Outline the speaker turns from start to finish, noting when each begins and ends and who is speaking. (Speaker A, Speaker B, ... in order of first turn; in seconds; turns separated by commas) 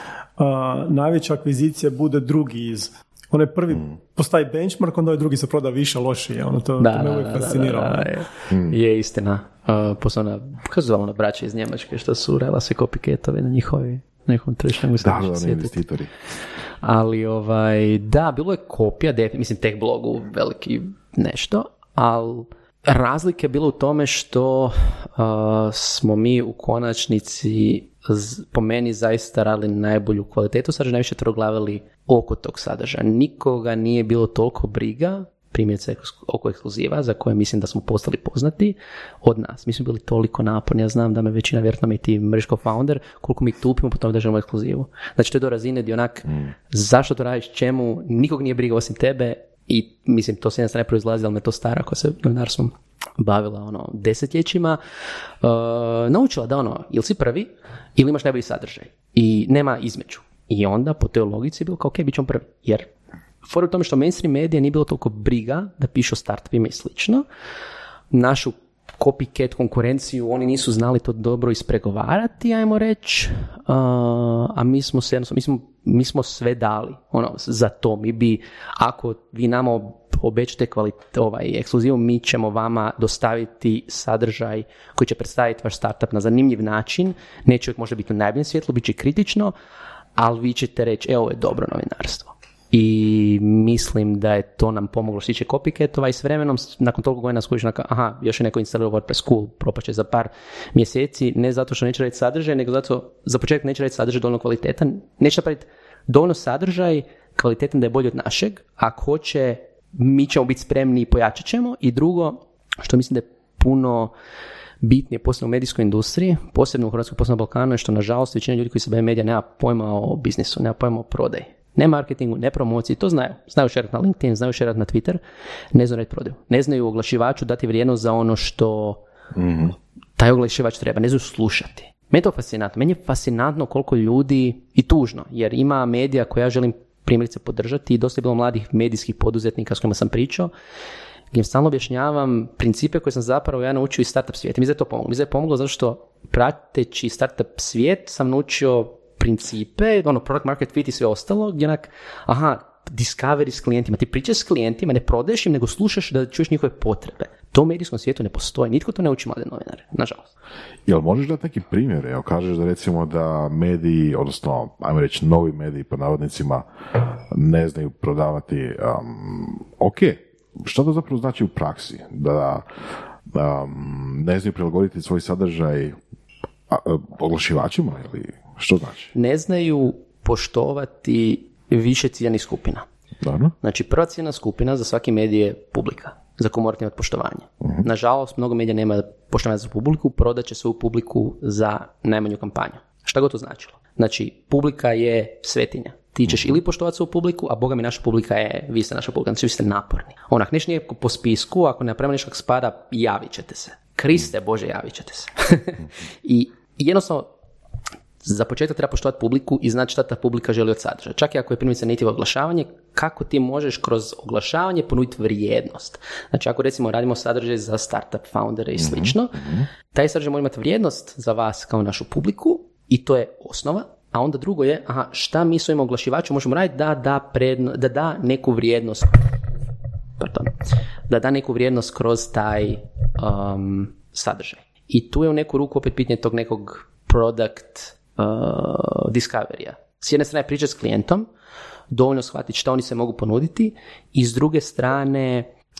Speaker A: 0.4-8.1, Speaker B: 6.8-15.8, Speaker C: 8.5-8.8, Speaker C: 15.0-16.1, Speaker B: 16.8-54.8, Speaker B: 55.4-62.9, Speaker B: 63.4-67.2, Speaker B: 68.1-89.5, Speaker B: 90.2-114.1, Speaker B: 114.8-125.2, Speaker B: 125.7-129.0, Speaker C: 129.3-129.7, Speaker B: 130.2-140.5, Speaker B: 141.3-160.3, Speaker C: 160.8-166.6, Speaker C: 167.3-172.6, Speaker C: 173.3-176.0, Speaker C: 176.7-179.1, Speaker B: 179.1-182.8, Speaker C: 183.2-183.5, Speaker B: 183.6-207.3, Speaker B: 208.2-219.4, Speaker C: 218.8-219.7, Speaker B: 219.9-229.3, Speaker B: 230.2-230.5, Speaker B: 231.1-241.3, Speaker B: 241.9-245.5